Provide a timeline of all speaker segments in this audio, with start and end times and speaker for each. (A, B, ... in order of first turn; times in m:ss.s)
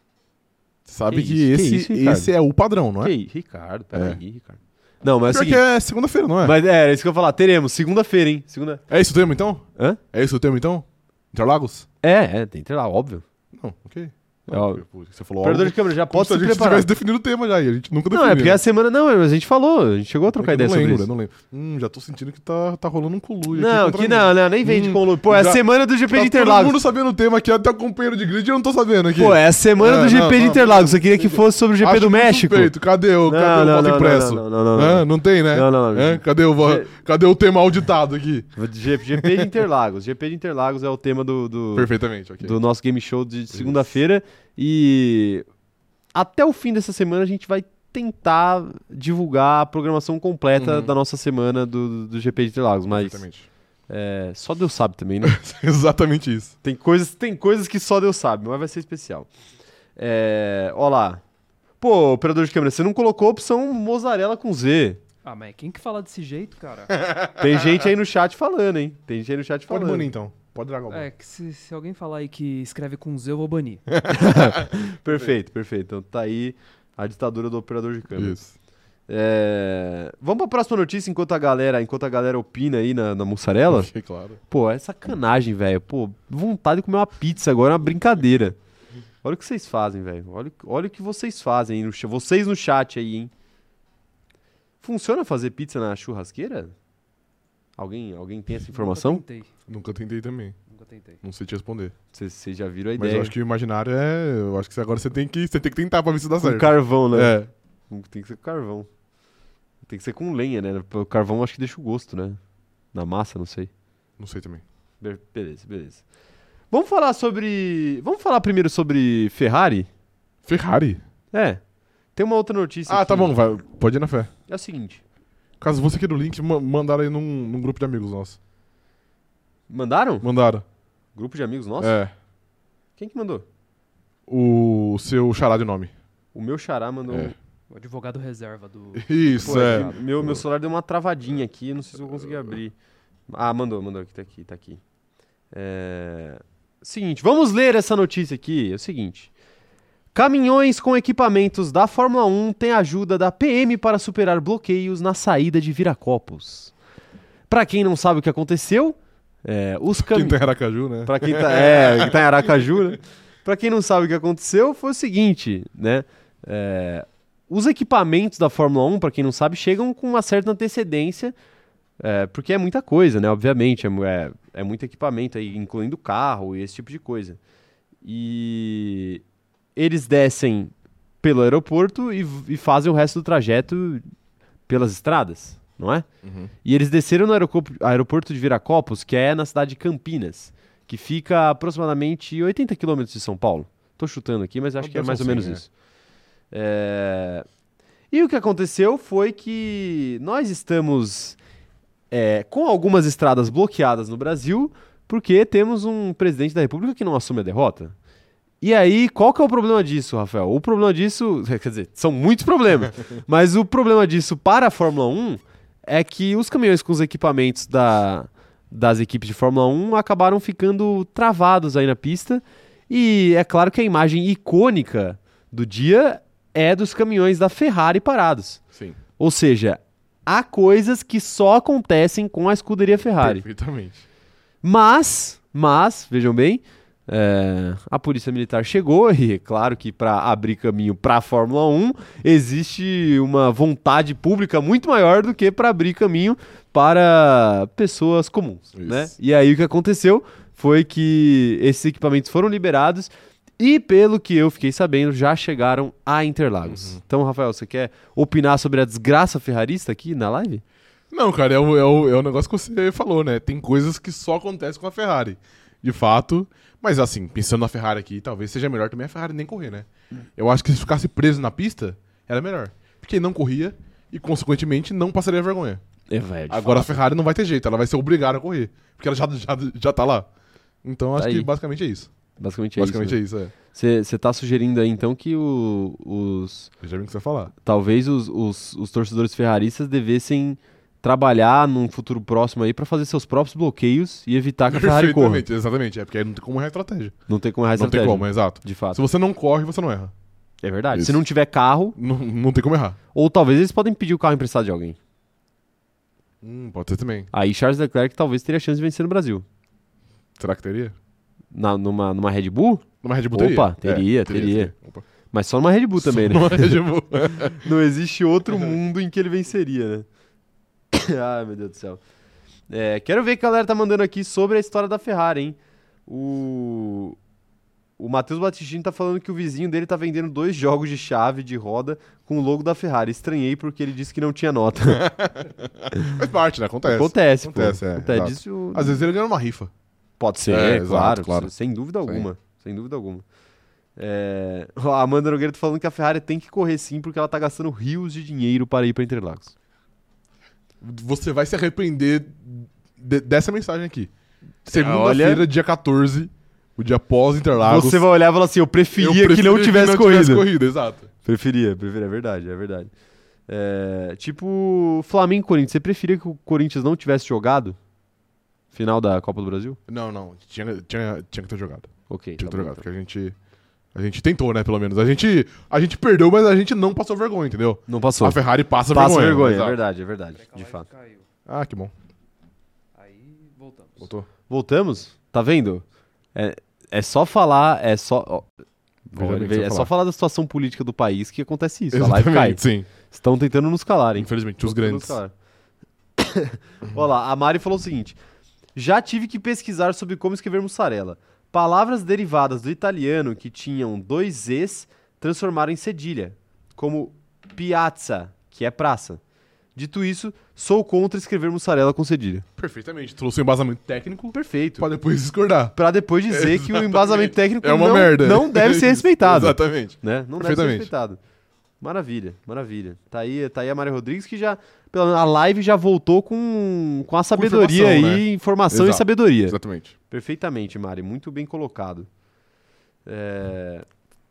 0:00.9-0:03.1 A
0:01.1-0:02.3 B
0:03.0-0:05.6 B
0:03.9-0:04.2 A
0:05.3-0:06.5 A
0:06.4-0:08.8 B
0:08.9-0:11.9 A
0:12.0-0:13.2 B
0:13.5-0:18.6 A
0:14.5-0:14.8 B
0:15.4-0:16.9 B
0:18.1-0:21.1 B
0:20.4-0:38.6 A
0:23.5-0:26.8 B
0:29.2-0:32.7 B
0:33.2-0:36.9 B
0:38.6-0:45.4 B
0:39.1-0:39.5 A
0:41.8-0:42.6 A
0:43.5-0:43.8 A
0:46.1-0:53.2 B
0:50.6-0:50.9 A
0:52.9-0:53.5 A
0:53.9-0:55.4 B
0:55.2-0:56.5 A
0:56.6-0:59.3 B
1:00.0-1:01.2 B
1:01.8-1:05.0 B
1:05.2-1:07.0 C
1:07.0-1:07.6 A
1:07.4-1:10.1 B
1:09.7-1:11.1 A
1:10.9-1:13.9 C
1:13.9-1:14.8 A
1:14.1-1:18.4 B
1:18.2-1:18.5 A
1:19.1-1:23.9 B
1:23.7-1:24.4 A
1:24.5-1:28.6 B
1:29.2-1:33.3 B
1:34.8-1:36.7 B
1:37.8-1:39.2 B
1:38.7-1:39.5 C
1:39.7-1:40.6 A
1:40.7-1:41.2 C
1:41.2-1:41.9 A
1:42.1-1:43.3 B
1:43.0-1:47.5 A
1:46.4-1:47.4 B
1:47.9-1:48.9 B
1:49.8-1:52.4 B
1:52.9-1:53.7 B
1:54.2-1:54.6 A
1:55.0-1:56.0 B
1:56.7-1:59.9 B
2:00.5-2:01.0 A
2:01.3-2:01.6 B
2:02.2-2:03.4 B
2:02.9-2:04.3 A
2:04.5-2:05.0 B
2:05.6-2:08.4 A
2:09.7-2:10.3 B
2:10.2-2:10.6 A
2:11.2-2:12.0 B
2:11.8-2:12.1 A
2:13.0-2:13.4 B
2:14.3-2:15.9 A
2:16.3-2:17.4 B
2:17.7-2:20.0 C
2:19.0-2:20.4 A
2:19.4-2:22.8 B
2:23.3-2:24.8 B
2:25.5-2:29.3 B
2:30.1-2:36.7 B
2:37.5-2:40.4 B
2:39.9-2:42.5 A
2:41.0-2:51.4 B
2:52.0-2:57.4 B
2:58.0-2:59.2 B
2:59.8-3:04.0 B
3:04.7-3:06.1 B
3:06.2-3:06.5 A
3:06.6-3:15.7 B
3:14.8-3:15.6 A
3:16.5-3:17.5 B
3:18.1-3:21.4 B
3:22.1-3:28.0 B
3:28.6-3:48.6 B
3:49.2-3:53.4 B
3:53.2-3:54.0 A
3:54.6-4:20.6 B
4:08.8-4:09.1 A
4:16.7-4:17.0 A
4:21.1-4:35.8 A
4:36.1-4:37.0 B
4:36.5-4:40.3 A
4:40.8-4:42.1 A
4:41.2-4:41.5 B
4:42.4-4:43.2 B
4:42.8-4:43.5 A
4:43.7-4:46.7 B
4:46.8-4:47.5 A
4:47.6-4:55.4 B
4:54.7-4:57.2 A
4:57.3-4:59.0 B
4:57.8-5:00.1 A
5:00.6-5:02.0 B
5:00.9-5:01.2 A
5:02.0-5:03.0 A
5:03.1-5:05.0 B
5:06.4-5:07.3 A
5:07.3-5:09.4 B
5:10.4-5:11.0 A
5:11.5-5:14.7 B
5:13.0-5:15.0 A
5:15.3-5:16.8 B
5:16.0-5:17.7 A
5:17.4-5:20.1 B
5:20.9-5:22.0 B
5:22.7-5:27.2 B
5:28.0-5:35.0 B
5:34.9-5:39.7 A
5:36.8-5:39.0 B
5:40.2-5:43.2 B
5:40.5-5:41.5 A
5:44.0-5:49.5 B
5:50.8-5:54.1 A
5:54.6-5:58.0 A
5:54.7-5:55.4 B
5:57.6-6:00.5 B
5:59.0-6:01.1 A
6:01.2-6:02.9 B
6:03.5-6:07.8 B
6:08.7-6:09.8 B
6:09.9-6:13.4 A
6:12.1-6:12.8 B
6:13.9-6:19.8 A
6:17.9-6:20.9 B
6:20.4-6:21.3 C
6:21.5-6:21.9 A
6:23.0-6:24.1 C
6:24.0-6:24.3 A
6:24.5-6:25.8 B
6:26.4-6:28.5 B
6:29.1-6:35.3 B
6:29.2-6:29.9 A
6:31.9-6:32.9 A
6:34.2-6:35.2 A
6:36.2-6:38.2 B
6:38.8-6:49.2 B
6:49.8-6:52.4 B
6:52.6-6:55.8 A
6:54.3-6:54.9 B
6:55.8-7:01.2 B
6:56.3-7:00.9 A
7:01.8-7:09.6 B
7:07.3-7:10.0 A
7:10.1-7:12.1 B
7:13.1-7:13.9 B